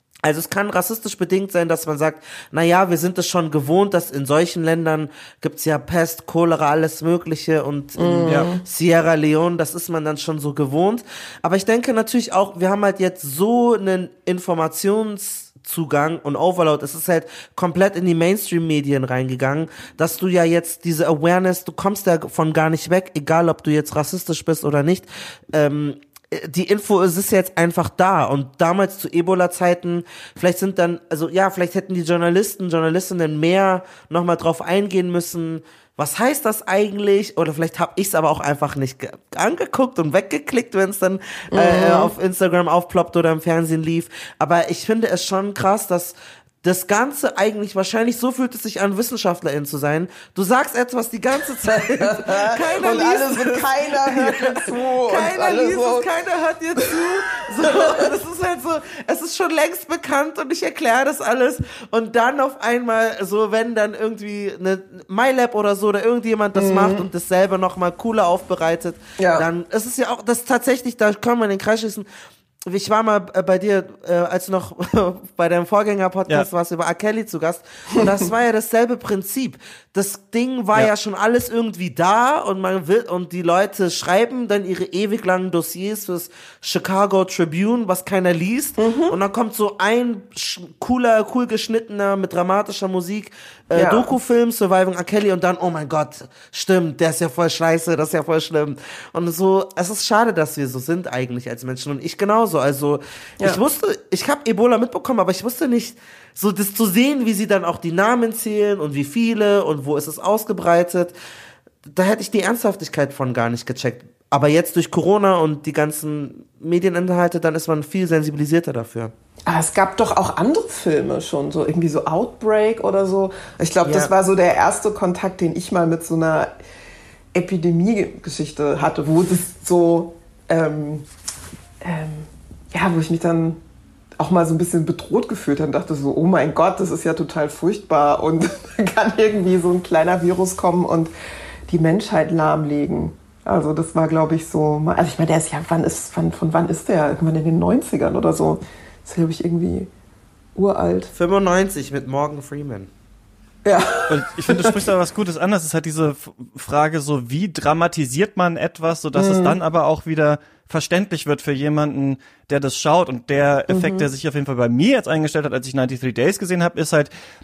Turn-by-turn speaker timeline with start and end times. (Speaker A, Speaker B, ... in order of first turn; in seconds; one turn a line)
Speaker A: 0.2-72.1
Speaker B: 8.0-8.6
Speaker B: 41.5-42.1
Speaker B: 51.7-56.1
Speaker B: 56.8-58.1
Speaker B: 66.5-67.1
Speaker B: 69.2-69.4
Speaker A: 72.7-111.1
Speaker B: 88.8-89.2
Speaker B: 93.7-94.1
Speaker A: 111.9-119.1
Speaker B: 119.5-126.5
Speaker A: 123.8-124.1
Speaker B: 127.3-131.1
Speaker B: 131.8-133.6
Speaker B: 134.2-141.1
Speaker B: 141.7-149.9
Speaker B: 150.5-151.1
Speaker A: 151.1-152.9
Speaker B: 153.6-154.8
Speaker C: 154.1-167.1
Speaker B: 159.1-159.6
Speaker B: 163.7-164.1